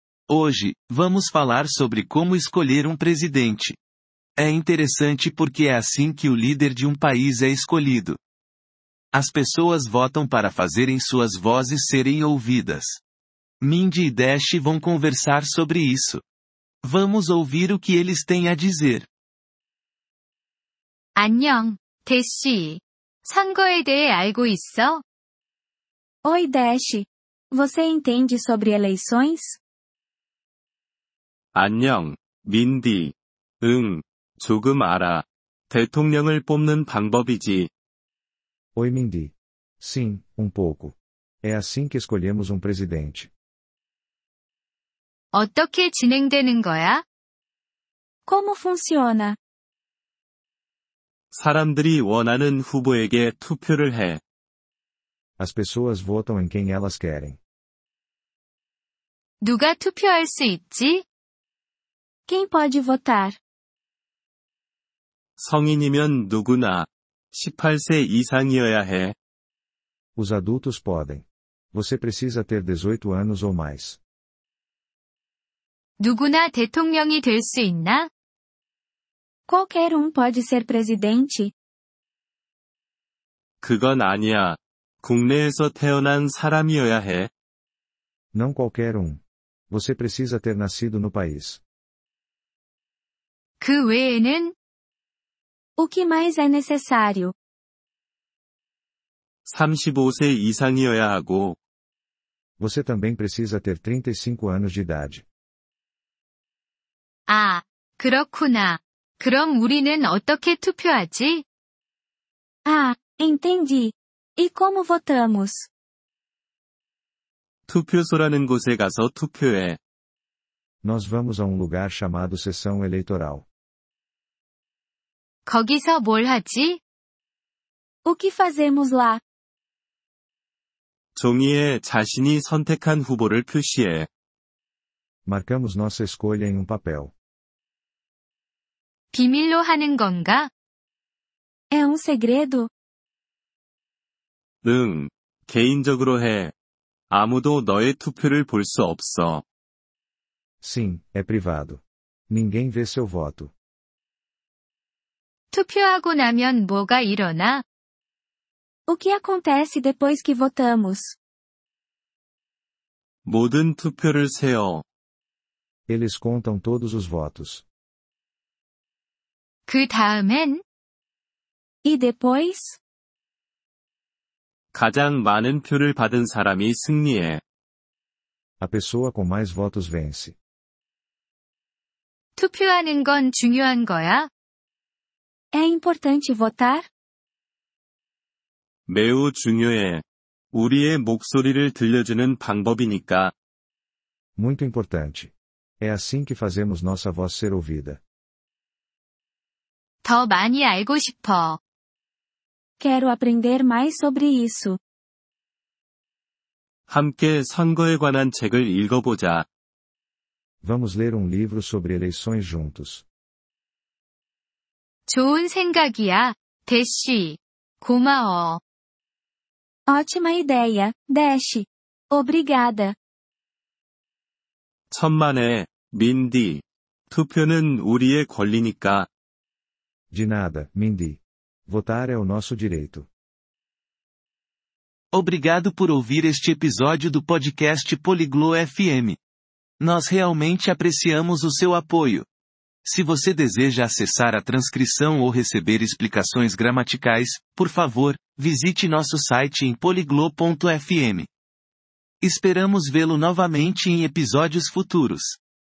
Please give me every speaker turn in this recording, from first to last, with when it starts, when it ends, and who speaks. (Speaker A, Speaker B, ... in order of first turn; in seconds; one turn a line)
Speaker A: 0.3-3.8
Speaker A: 4.4-8.2
Speaker A: 9.1-13.0
Speaker A: 13.6-16.2
Speaker A: 16.8-19.1
Speaker B: 21.2-25.0
Speaker C: 26.2-29.6
Speaker D: 31.6-37.7
Speaker E: 38.8-43.3
Speaker B: 45.3-47.0
Speaker C: 48.3-49.4
Speaker D: 51.3-54.2
Speaker E: 55.4-57.4
Speaker B: 59.4-61.0
Speaker C: 62.3-63.4
Speaker D: 65.4-69.2
Speaker E: 70.2-74.0
Speaker B: 76.0-78.1
Speaker C: 79.5-81.5
Speaker D: 83.6-87.3
Speaker E: 88.3-91.6
Speaker B: 93.6-94.5
Speaker C: 95.8-97.3
Speaker D: 99.5-101.6
Speaker E: 102.6-105.2
Speaker B: 107.3-111.4
Speaker C: 112.6-115.7
Speaker D: 117.7-119.8
Speaker E: 120.8-123.5
Speaker B: 125.5-126.8
Speaker C: 128.0-129.2
Speaker D: 131.2-134.1
Speaker E: 135.2-137.1
Speaker B: 139.1-140.5
Speaker C: 141.7-142.7
Speaker D: 144.6-146.5
Speaker D: 147.1-149.4
Speaker E: 150.6-153.5
Speaker B: 155.5-157.6
Speaker C: 158.9-161.2
Speaker D: 163.2-164.8
Speaker E: 165.9-167.6
Speaker B: 169.7-170.6
Speaker C: 171.8-172.8
Speaker D: 174.7-177.4
Speaker E: 178.6-180.3
Speaker B: 182.4-184.3
Speaker C: 185.5-186.9
Speaker D: 188.9-193.3
Speaker E: 194.4-198.0
Speaker B: 200.0-201.6
Speaker C: 202.8-204.8
Speaker D: 206.9-209.4
Speaker E: 210.6-213.0
Speaker B: 215.1-218.6
Speaker C: 219.9-222.9
Speaker D: 224.9-229.1
Speaker E: 230.1-233.1
Speaker A: 235.1-239.2
Speaker A: 239.8-242.3
Speaker A: 242.8-251.3
Speaker A: 252.2-255.4